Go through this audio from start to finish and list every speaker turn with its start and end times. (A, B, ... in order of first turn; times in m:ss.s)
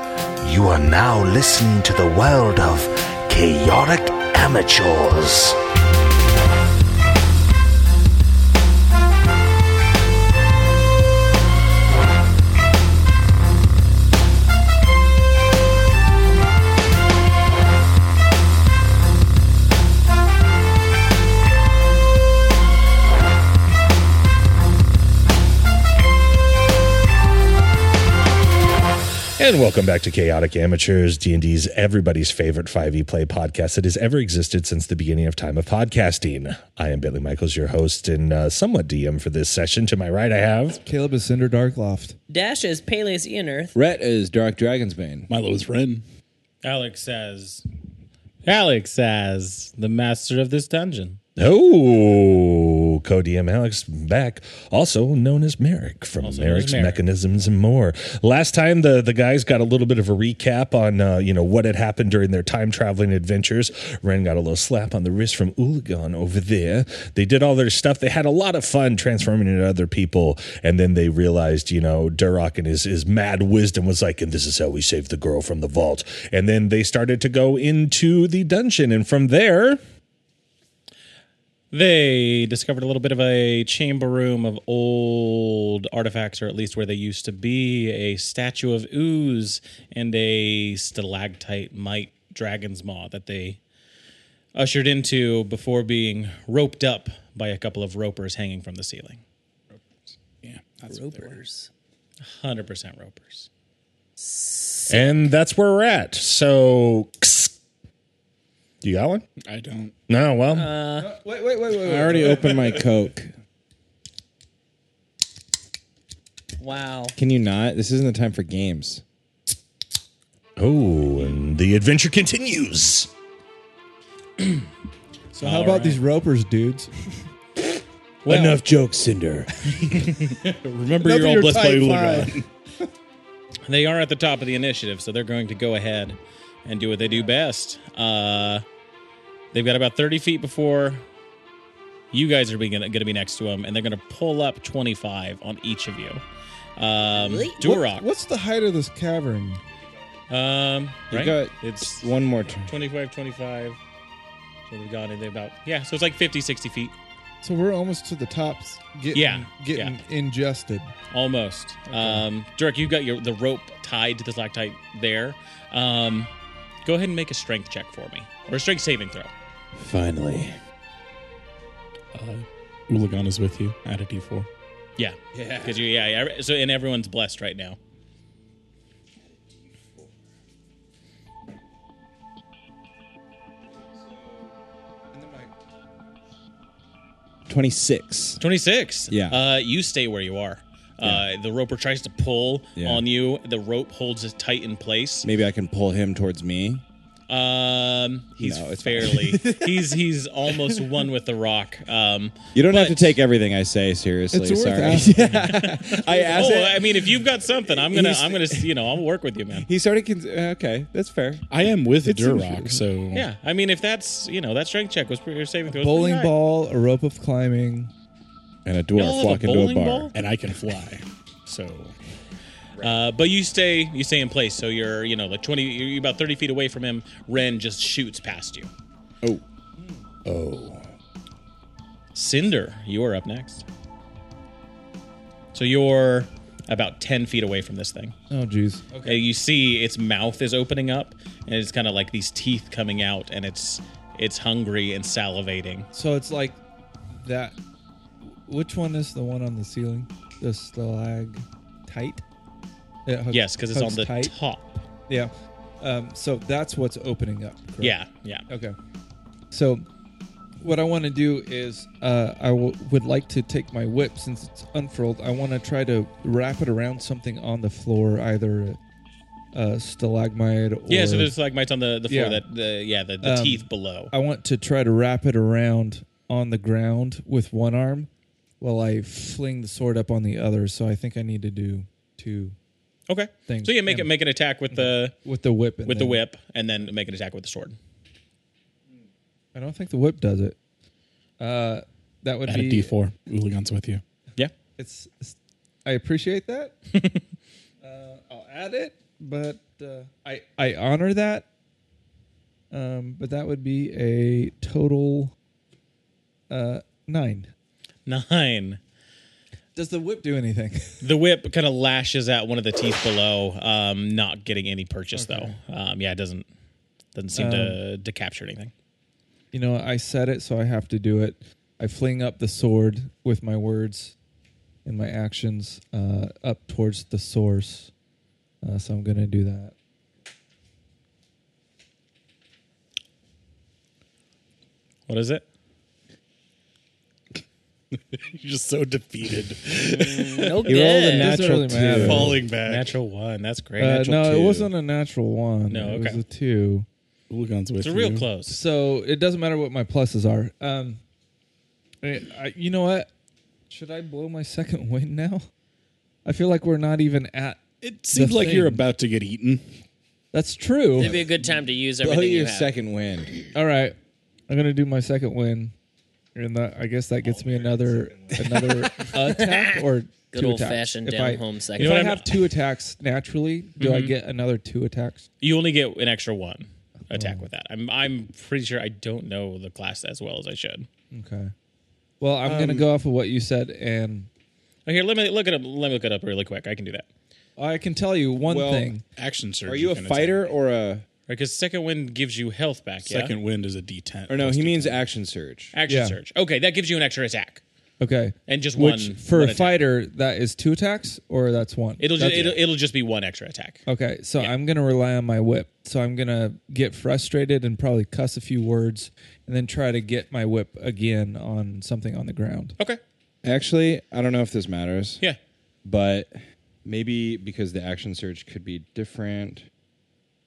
0:00.4-0:05.6 A
0:29.4-0:40.8 B
0:40.8-0:42.2 C
0:42.3-0:43.7 D
0:43.7-0:45.3 E
0:45.3-0:46.0 F
0:46.6-0:47.6 G
0:48.4-0:51.2 G
0:51.4-1:19.8 B
0:56.2-0:57.0 G
1:21.7-1:33.6 G
1:34.5-1:39.2 G
1:39.7-1:41.4 F
1:40.9-1:41.7 D
1:42.2-1:43.5 G
1:44.2-1:45.2 D
1:44.9-1:47.5 B
1:48.8-1:49.2 B
1:49.4-1:49.9 F
1:50.1-1:50.8 B
1:50.5-1:51.1 D
1:51.0-1:52.6 C
1:51.8-1:53.3 E
1:51.9-1:52.8 F
1:56.6-1:57.2 D
1:57.2-1:59.0 E
2:00.6-2:03.1 B
2:05.3-2:06.0 G
2:05.4-2:06.9 C
2:08.3-2:08.6 G
2:08.3-2:10.3 E
2:09.9-2:12.5 F
2:11.0-2:12.4 E
2:13.6-2:18.6 G
2:19.5-2:21.0 G
2:22.1-2:26.2 G
2:26.8-2:28.1 G
2:27.1-2:27.6 D
2:27.6-2:29.6 C
2:30.3-2:33.8 G
2:31.1-2:32.7 E
2:34.7-2:36.9 G
2:37.4-2:40.9 C
2:39.1-2:40.0 G
2:41.1-2:46.3 G
2:41.9-2:42.2 C
2:46.8-2:49.3 G
2:49.8-2:50.6 E
2:52.1-2:54.5 F
2:55.0-2:57.8 G
2:55.3-2:55.9 E
2:59.6-3:00.1 E
3:04.0-3:04.4 E
3:05.1-3:05.5 C
3:07.5-3:08.4 E
3:08.4-3:15.3 G
3:09.1-3:09.4 E
3:11.0-3:11.3 E
3:12.8-3:13.0 E
3:15.2-3:16.8 E
3:17.3-3:23.2 G
3:18.4-3:20.0 E
3:22.5-3:28.8 E
3:24.3-3:26.5 C
3:25.4-3:29.7 G
3:29.6-3:32.8 E
3:31.5-3:33.3 F
3:33.1-3:36.3 G
3:35.7-3:37.9 C
3:38.6-3:40.1 E
3:38.9-3:40.1 G
3:40.1-3:42.0 F
3:42.8-3:48.7 G
3:50.3-3:50.8 B
3:52.1-3:53.6 G
3:55.5-3:58.1 G
3:58.3-3:59.2 C
3:59.0-4:05.9 G
4:05.9-4:06.6 C
4:07.1-4:07.6 C
4:08.4-4:12.2 C
4:13.0-4:14.3 C
4:13.3-4:14.8 G
4:15.1-4:18.0 C
4:17.8-4:18.4 G
4:18.5-4:18.8 C
4:19.5-4:19.8 C
4:20.6-4:28.8 C
4:29.5-4:31.3 C
4:30.9-4:34.1 G
4:32.1-4:32.4 C
4:33.2-4:38.1 C
4:38.6-4:42.6 C
4:43.1-4:45.2 G
4:43.5-4:44.1 C
4:44.7-4:46.2 C
4:45.8-4:47.8 G
4:49.5-4:50.6 C
4:51.4-4:52.9 C
4:52.5-4:54.0 F
4:54.8-4:56.7 C
4:56.9-4:57.2 G
4:57.8-5:01.5 C
5:02.7-5:05.3 C
5:06.5-5:07.5 C
5:08.0-5:08.8 G
5:09.8-5:11.0 C
5:11.0-5:16.4 G
5:15.1-5:15.6 C
5:17.1-5:18.7 G
5:17.3-5:17.8 C
5:19.5-5:24.1 C
5:24.8-5:27.9 C
5:28.6-5:29.7 C
5:35.1-5:35.4 G
5:37.9-5:40.7 F
5:39.8-5:41.4 D
5:40.6-5:42.4 E
5:41.1-5:42.4 C
5:42.0-5:43.0 F
5:42.6-5:44.2 G
5:43.8-5:46.8 C
5:44.1-5:44.7 E
5:45.7-5:46.2 G
5:47.3-5:48.3 F
5:47.8-5:48.6 G
5:48.4-5:51.0 C
5:52.0-5:53.1 C
5:53.7-5:55.5 C
5:56.2-5:57.6 C
5:57.8-5:59.8 F
5:58.1-5:58.8 C
6:00.3-6:01.2 C
6:00.9-6:02.7 D
6:01.0-6:03.4 E
6:03.5-6:04.0 C
6:04.5-6:05.7 C
6:06.3-6:15.2 C
6:07.2-6:08.4 B
6:08.3-6:09.1 E
6:09.0-6:12.1 D
6:11.8-6:12.4 G
6:13.8-6:14.1 G
6:15.4-6:20.9 G
6:17.1-6:17.5 C
6:21.1-6:21.5 C
6:22.2-6:24.3 C
6:22.4-6:22.9 E
6:24.8-6:27.1 G
6:27.6-6:29.0 C
6:28.5-6:29.0 E
6:29.2-6:30.5 F
6:29.6-6:31.0 E
6:31.3-6:33.4 G
6:33.0-6:35.0 F
6:34.3-6:35.7 E
6:35.7-6:37.6 G
6:35.9-6:36.2 C
6:38.0-6:42.6 C
6:38.5-6:39.8 G
6:42.0-6:43.8 G
6:43.8-6:52.8 C
6:53.4-6:55.2 E
6:55.8-6:59.7 E